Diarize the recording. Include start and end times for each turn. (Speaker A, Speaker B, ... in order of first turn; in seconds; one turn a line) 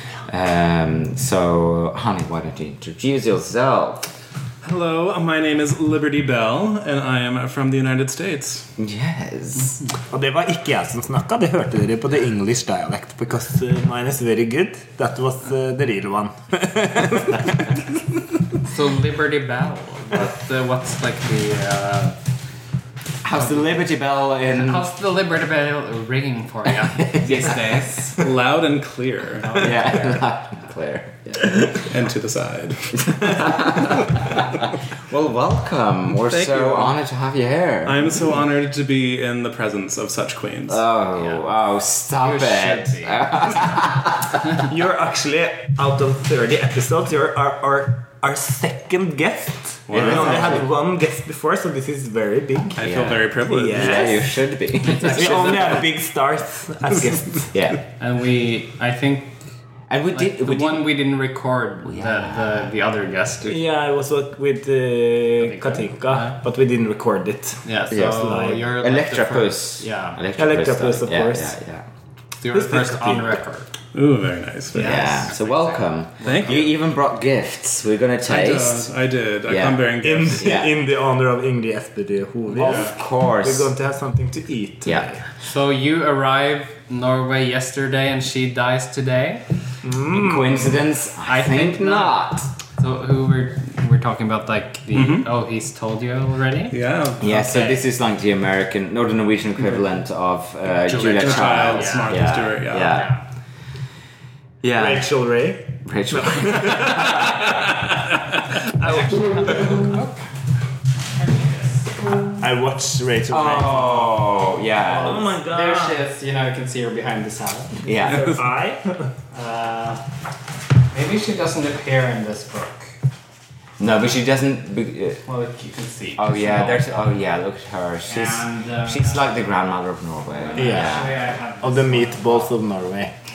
Speaker A: 0.3-4.1
Speaker B: 4.6-8.7
Speaker A: 8.8-9.8
Speaker C: 10.1-17.9
Speaker D: 18.6-22.2
Speaker A: 23.2-24.9
Speaker D: 24.6-28.2
Speaker A: 27.0-28.1
Speaker B: 28.2-29.8
Speaker D: 29.4-30.3
Speaker A: 29.6-31.7
Speaker B: 31.5-34.2
Speaker A: 33.1-38.1
Speaker B: 36.3-36.9
Speaker B: 37.9-40.8
Speaker A: 40.7-44.4
Speaker D: 41.2-41.4
Speaker D: 42.2-43.8
Speaker C: 44.5-52.9
Speaker B: 49.9-50.6
Speaker A: 49.9-50.7
Speaker B: 52.8-54.1
Speaker A: 52.8-55.8
Speaker C: 53.5-54.2
Speaker D: 54.8-55.9
Speaker C: 55.1-57.5
Speaker A: 57.5-57.8
Speaker D: 58.0-59.4
Speaker A: 59.9-60.9
Speaker D: 60.1-63.6
Speaker A: 61.9-62.7
Speaker C: 63.5-68.6
Speaker D: 65.4-66.4
Speaker D: 67.6-70.2
Speaker A: 67.9-71.8
Speaker C: 70.3-71.5
Speaker D: 72.4-73.7
Speaker C: 72.5-73.4
Speaker B: 73.9-75.2
Speaker A: 74.7-78.9
Speaker D: 74.8-76.6
Speaker B: 76.2-76.6
Speaker B: 78.2-80.6
Speaker A: 79.5-80.7
Speaker C: 80.0-85.2
Speaker D: 82.5-82.9
Speaker A: 82.6-83.7
Speaker D: 85.4-89.4
Speaker C: 89.8-90.8
Speaker A: 90.1-92.5
Speaker D: 91.2-92.2
Speaker D: 92.8-97.8
Speaker B: 94.9-95.3
Speaker B: 96.7-97.2
Speaker A: 97.2-103.1
Speaker B: 100.9-103.0
Speaker D: 101.0-103.2
Speaker A: 104.6-105.1
Speaker C: 104.8-107.5
Speaker A: 105.8-107.6
Speaker C: 108.7-110.0
Speaker D: 108.8-110.2
Speaker D: 111.2-112.2
Speaker C: 112.4-114.1
Speaker A: 113.3-115.3
Speaker D: 114.8-117.9
Speaker C: 114.9-116.0
Speaker A: 117.8-118.4
Speaker B: 118.1-118.4
Speaker C: 118.1-119.1
Speaker D: 119.3-120.0
Speaker D: 120.9-123.0
Speaker A: 123.8-125.2
Speaker D: 125.2-127.0
Speaker A: 126.2-131.1
Speaker D: 128.1-129.2
Speaker D: 130.4-132.6
Speaker C: 130.6-133.2